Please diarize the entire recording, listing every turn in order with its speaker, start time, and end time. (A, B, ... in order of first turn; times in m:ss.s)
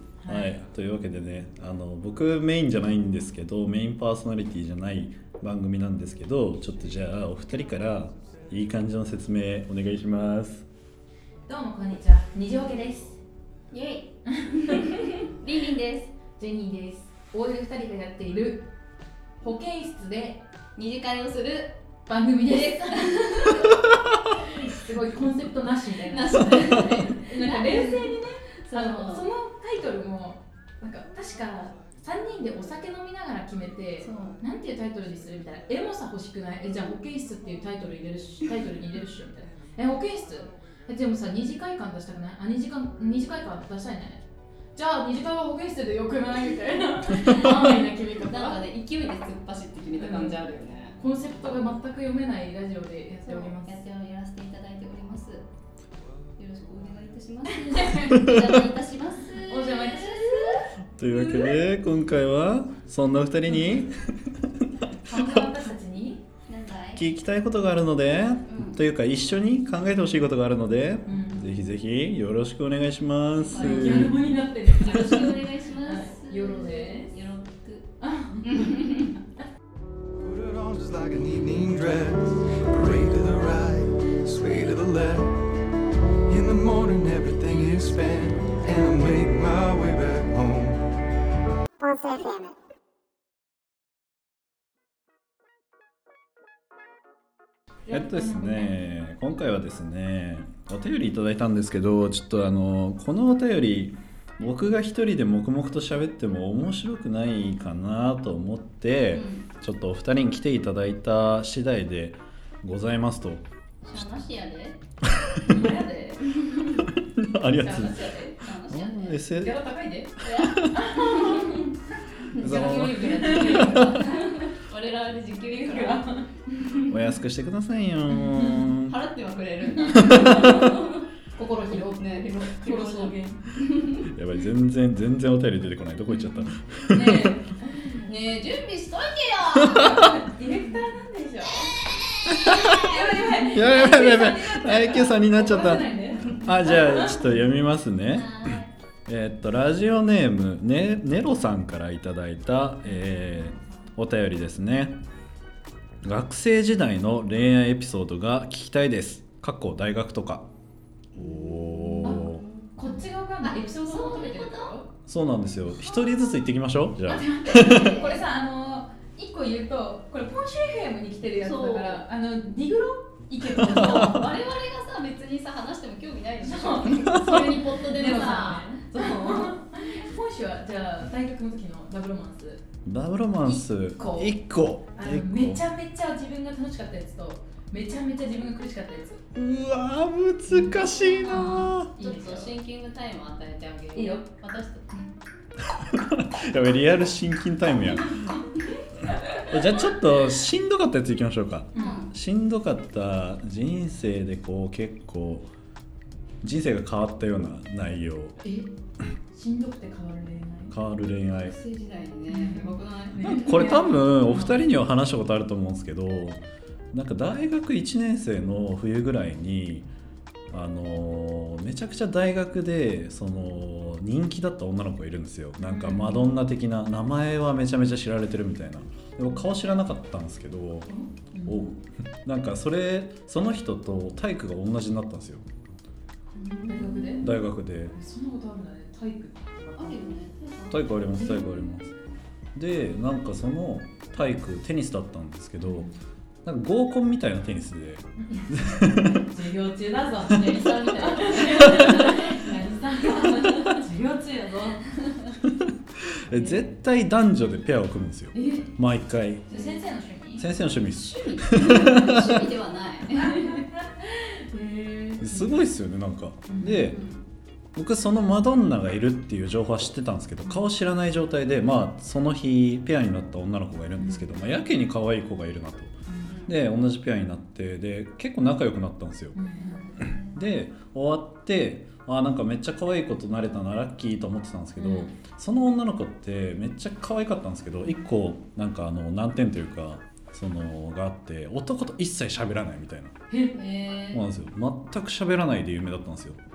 0:00.2-0:00.6 A
0:00.3-0:10.6 B
0:11.5-0:13.2 A
0:13.7-0:16.1 C
0:14.3-0:15.2 A
0:16.4-0:18.7 A
0:19.4-0:20.4 A
0:20.8-0:21.7 C
0:22.1-0:23.8 A
0:23.0-0:23.8 C
0:24.4-0:48.6 A
0:26.1-0:29.3 C
0:34.0-0:34.4 C
0:48.2-0:51.0 C
0:50.0-0:50.4 A
0:51.0-0:53.8 A
0:53.2-0:55.5 C
0:56.4-1:00.7 C
0:57.5-0:58.5 A
0:58.0-0:58.6 B
0:59.4-1:00.7 A
1:01.0-1:05.5 B
1:03.5-1:03.8 A
1:05.0-1:06.2 A
1:06.5-1:07.0 C
1:07.0-1:14.2 B
1:08.5-1:08.8 C
1:11.1-1:11.4 A
1:13.4-1:14.2 C
1:13.5-1:17.1 A
1:14.8-1:17.9 C
1:18.0-1:19.0 A
1:18.5-1:19.1 C
1:20.2-1:25.5 D
1:26.3-1:31.0 D
1:37.9-1:38.8 A
1:37.9-1:53.4 B
1:49.1-1:49.5 C
1:53.8-1:54.8 C
1:55.0-1:55.6 B
1:55.4-1:56.5 A
1:56.3-1:56.9 C
1:57.0-1:58.0 B
1:57.5-1:58.4 A
1:57.8-1:59.1 C
1:58.7-1:59.6 B
1:59.3-2:01.8 A
2:00.2-2:01.7 C
2:00.4-2:00.8 B
2:02.3-2:04.5 A
2:02.3-2:07.0 C
2:02.4-2:03.8 B
2:05.5-2:06.3 A
2:06.9-2:09.0 B
2:08.2-2:08.7 A
2:08.7-2:11.1 C
2:09.8-2:13.4 A
2:12.0-2:14.1 C
2:14.0-2:17.4 B
2:16.9-2:18.1 A
2:18.0-2:20.1 C
2:19.7-2:21.8 A
2:22.3-2:23.4 C
2:22.4-2:22.8 B
2:22.5-2:27.2 A
2:23.5-2:35.0 B
2:26.2-2:26.6 C
2:28.1-2:28.7 C
2:32.9-2:33.5 A
2:36.0-2:40.5 B
2:41.1-2:44.8 C
2:41.2-2:42.4 B
2:42.0-2:44.9 A
2:45.1-2:47.9 B
2:47.1-2:54.3 A
2:47.6-2:48.2 C
2:51.4-2:52.0 C
2:53.6-2:54.1 B
2:53.6-2:59.6 C
2:56.4-3:02.6 A
2:57.1-2:57.4 B
3:02.8-3:05.6 B
3:03.5-3:04.4 A
3:04.9-3:09.2 A
3:09.4-3:11.9 B
3:10.5-3:12.5 A
3:11.2-3:15.1 C
3:14.0-3:14.3 A
3:15.6-3:18.3 B
3:18.1-3:19.9 A
3:19.5-3:25.5 B
3:21.7-3:22.0 A
3:21.8-3:22.1 C
3:26.4-3:28.4 B
3:28.4-3:28.7 A
3:29.3-3:30.8 A
3:30.7-3:31.6 B
3:31.3-3:33.8 C
3:32.3-3:34.6 A
3:33.2-3:39.9 B
3:40.5-3:50.9 B
3:45.6-3:46.4 A
3:50.9-3:51.7 A
3:51.5-3:55.5 B
3:56.4-3:57.4 C
3:56.7-3:57.4 A
3:57.2-3:57.9 B
3:57.9-4:00.1 A
3:59.8-4:01.5 C
4:00.7-4:01.9 B
4:01.2-4:01.4 A
4:02.6-4:05.9 B
4:05.6-4:06.0 A
4:06.4-4:09.3 B
4:08.2-4:14.9 A
4:10.5-4:12.5 C
4:13.3-4:13.7 C
4:15.4-4:19.5 B
4:16.3-4:16.7 A
4:18.4-4:18.7 C
4:19.5-4:20.5 A
4:19.5-4:19.8 C
4:20.4-4:22.5 B
4:20.9-4:23.6 C
4:23.1-4:25.6 A
4:25.2-4:27.0 B
4:26.5-4:26.9 A
4:26.8-4:27.2 C
4:27.8-4:39.4 B
4:34.0-4:34.3 A
4:36.1-4:36.4 A
4:36.2-4:36.6 C
4:39.4-4:40.1 A
4:39.6-4:40.4 C
4:40.3-4:53.2 B
4:44.8-4:45.1 A
4:53.3-4:53.6 A
4:53.5-4:54.2 C
4:54.1-4:56.4 B